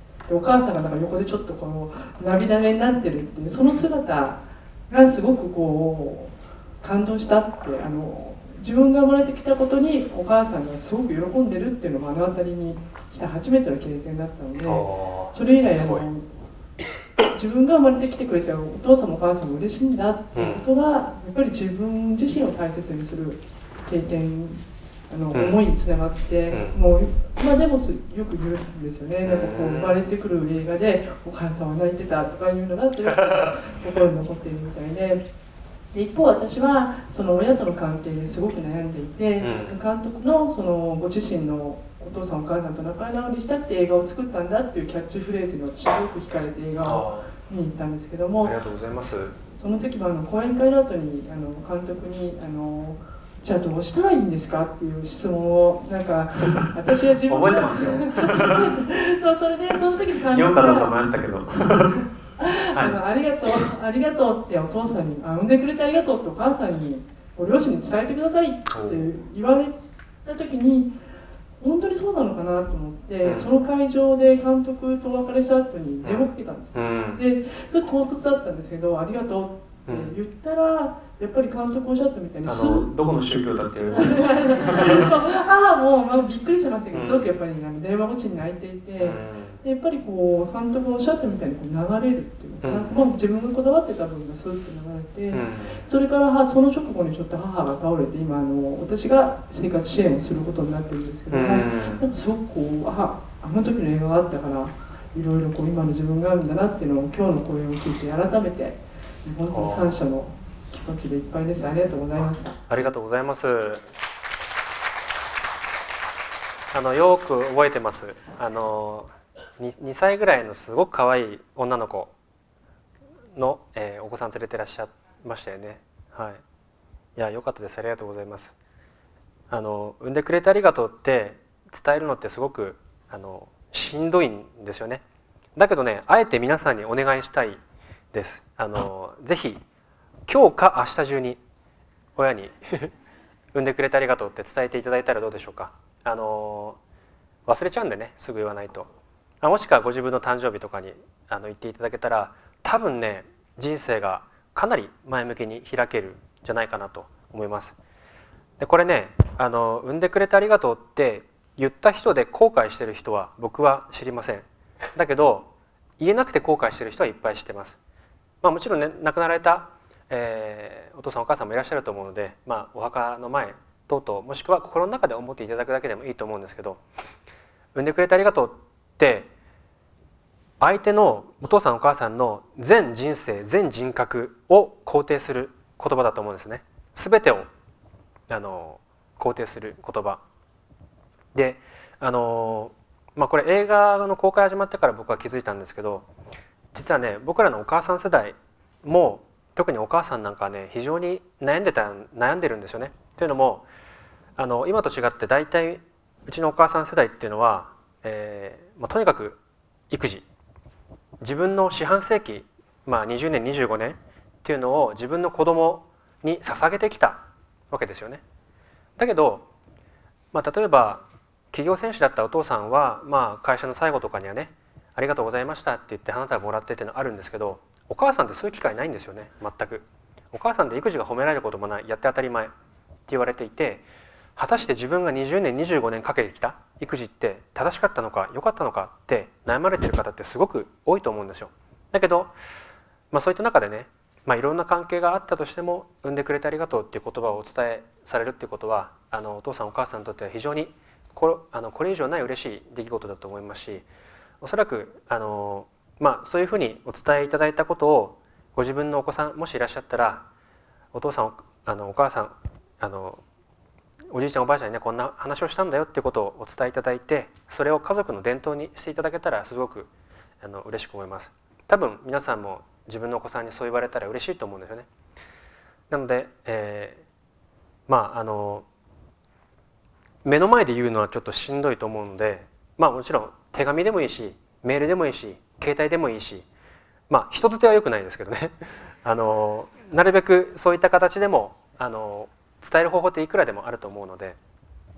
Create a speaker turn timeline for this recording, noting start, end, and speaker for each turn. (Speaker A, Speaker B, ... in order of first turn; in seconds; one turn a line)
Speaker A: 0.3-16.2
Speaker B: 14.6-16.1
Speaker A: 17.3-35.2
Speaker B: 20.3-20.6
Speaker B: 26.5-26.8
Speaker B: 29.2-30.0
Speaker B: 33.1-33.5
Speaker A: 35.9-48.5
Speaker B: 39.4-39.7
Speaker B: 46.8-47.3
Speaker B: 48.4-49.3
Speaker A: 49.5-61.0
Speaker B: 57.2-58.6
Speaker B: 60.3-62.0
Speaker A: 61.5-70.9
Speaker B: 62.7-63.0
Speaker B: 68.7-69.0
Speaker A: 71.6-82.9
Speaker B: 73.2-73.5
Speaker B: 76.0-77.2
Speaker B: 79.9-80.1
Speaker B: 82.4-85.0
Speaker A: 83.9-112.6
Speaker B: 86.9-87.2
Speaker B: 89.0-89.6
Speaker B: 92.6-92.9
Speaker B: 95.3-95.8
Speaker B: 101.3-102.0
Speaker B: 109.5-110.0
Speaker B: 112.7-113.8
Speaker B: 116.7-122.1
Speaker B: 123.3-126.4
Speaker B: 127.2-128.5
Speaker B: 129.5-135.0
Speaker B: 135.6-137.6
Speaker B: 138.1-139.6
Speaker B: 140.3-141.4
Speaker B: 142.2-142.9
Speaker B: 143.5-146.8
Speaker B: 147.4-148.9
Speaker B: 149.4-157.8
Speaker B: 158.6-167.8
Speaker B: 168.4-176.8
Speaker B: 177.7-179.3
Speaker B: 180.6-187.5
Speaker B: 188.3-190.2
Speaker B: 191.3-196.1
Speaker B: 196.7-203.7
Speaker B: 204.4-210.2
Speaker B: 211.2-218.2
Speaker B: 219.0-219.5
Speaker B: 220.3-232.5
Speaker B: 233.1-233.8
Speaker B: 234.3-242.3
Speaker B: 243.1-253.9
Speaker B: 254.4-260.2
Speaker B: 260.9-263.2
Speaker B: 264.1-269.9
Speaker B: 270.4-274.9
Speaker B: 275.9-277.0
Speaker B: 277.9-278.6
Speaker B: 280.2-286.5
Speaker B: 287.1-294.4